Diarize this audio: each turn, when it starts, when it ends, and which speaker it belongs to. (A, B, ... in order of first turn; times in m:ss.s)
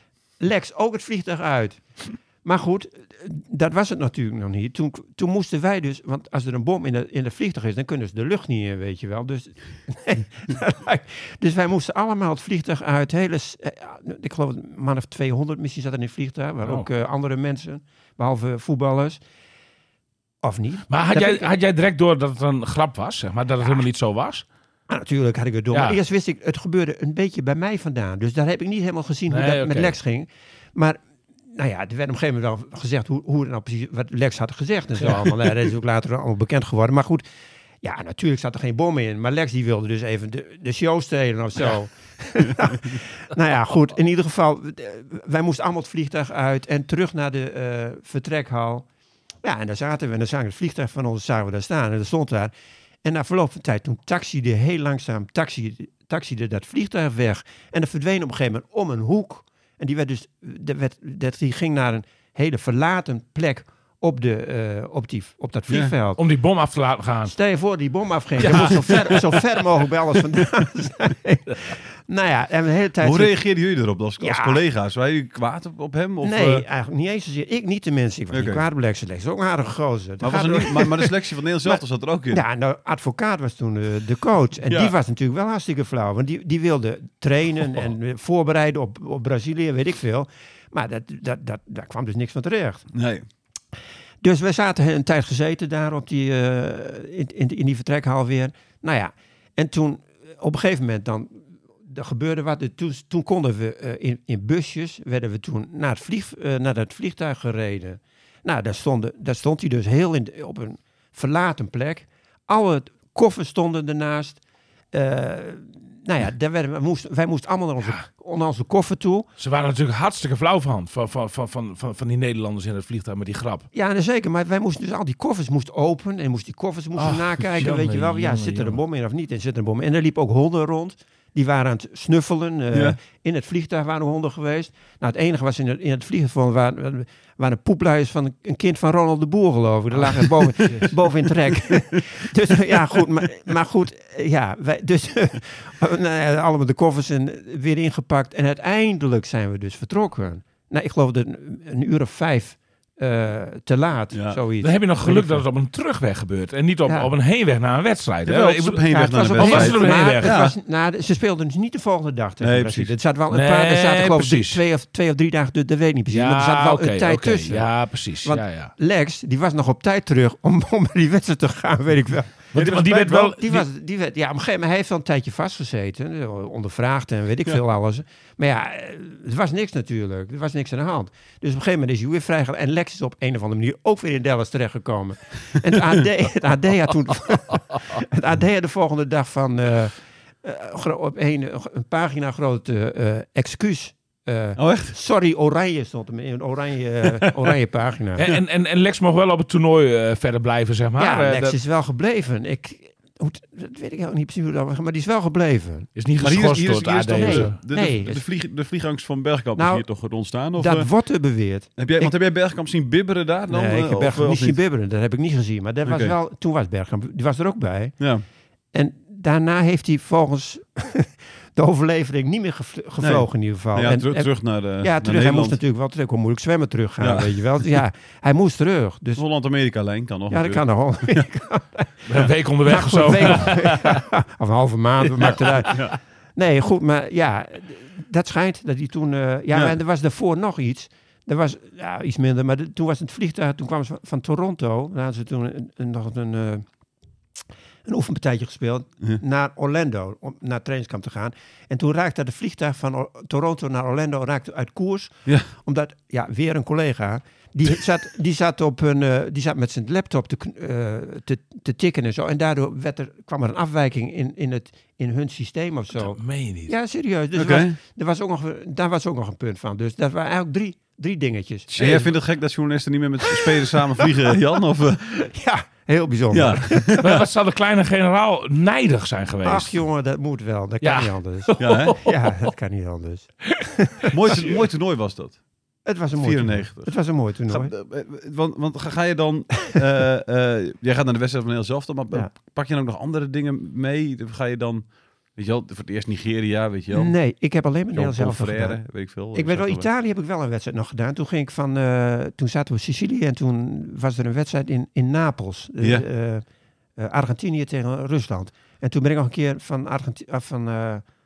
0:00.4-0:19.2 A
0:20.4-0:21.5 A
0:20.9-0:24.4 B
0:24.9-0:31.0 A
0:25.7-0:26.0 B
0:29.3-0:29.9 B
0:31.5-0:37.2 A
0:35.0-0:35.3 B
0:37.8-0:48.8 A
0:49.4-0:52.5 A
0:53.0-1:06.2 A
1:05.7-1:05.9 C
1:06.2-1:07.3 B
1:07.2-1:13.4 A
1:08.4-1:09.1 B
1:08.5-1:09.2 C
1:13.0-1:16.6 C
1:14.2-1:14.6 A
1:16.2-1:32.9 A
1:18.3-1:18.6 C
1:20.2-1:22.4 C
1:24.6-1:24.9 C
1:32.9-1:33.2 C
1:34.2-1:54.4 A
1:54.9-1:59.3 A
1:59.4-2:03.6 B
2:03.7-2:35.4 A
2:07.0-2:08.8 B
2:12.7-2:13.0 C
2:20.5-2:20.9 B
2:20.6-2:20.8 C
2:34.1-2:34.4 C
2:34.6-2:40.4 B
2:38.2-2:40.5 C
2:38.8-2:47.7 A
2:42.4-2:42.9 C
2:43.3-2:44.6 B
2:46.1-2:48.7 B
2:48.2-3:18.3 A
2:52.5-2:53.6 B
3:14.6-3:14.9 C
3:18.2-3:21.6 B
3:21.0-3:25.9 A
3:26.0-3:27.5 B
3:26.2-3:30.9 C
3:27.2-3:28.2 A
3:29.6-3:29.8 A
3:30.5-3:32.1 A
3:31.8-3:34.6 C
3:33.5-3:38.0 A
3:35.8-3:36.1 C
3:38.7-3:49.2 A
3:43.0-3:45.6 C
3:47.0-3:47.4 C
3:49.2-3:51.2 C
3:50.3-3:52.1 A
3:52.1-3:54.0 B
3:52.6-4:06.6 A
3:55.2-3:56.0 C
4:07.8-4:32.1 A
4:26.0-4:26.7 B
4:27.3-4:27.8 C
4:31.7-4:35.1 C
4:34.0-4:36.9 A
4:36.3-4:37.2 C
4:37.0-4:39.8 B
4:39.4-4:44.5 A
4:40.8-4:42.5 B
4:41.6-4:41.9 C
4:44.1-4:45.4 C
4:45.8-4:47.7 A
4:46.2-4:57.1 C
4:56.9-5:06.4 A
4:57.9-4:59.8 C
5:07.0-5:11.0 A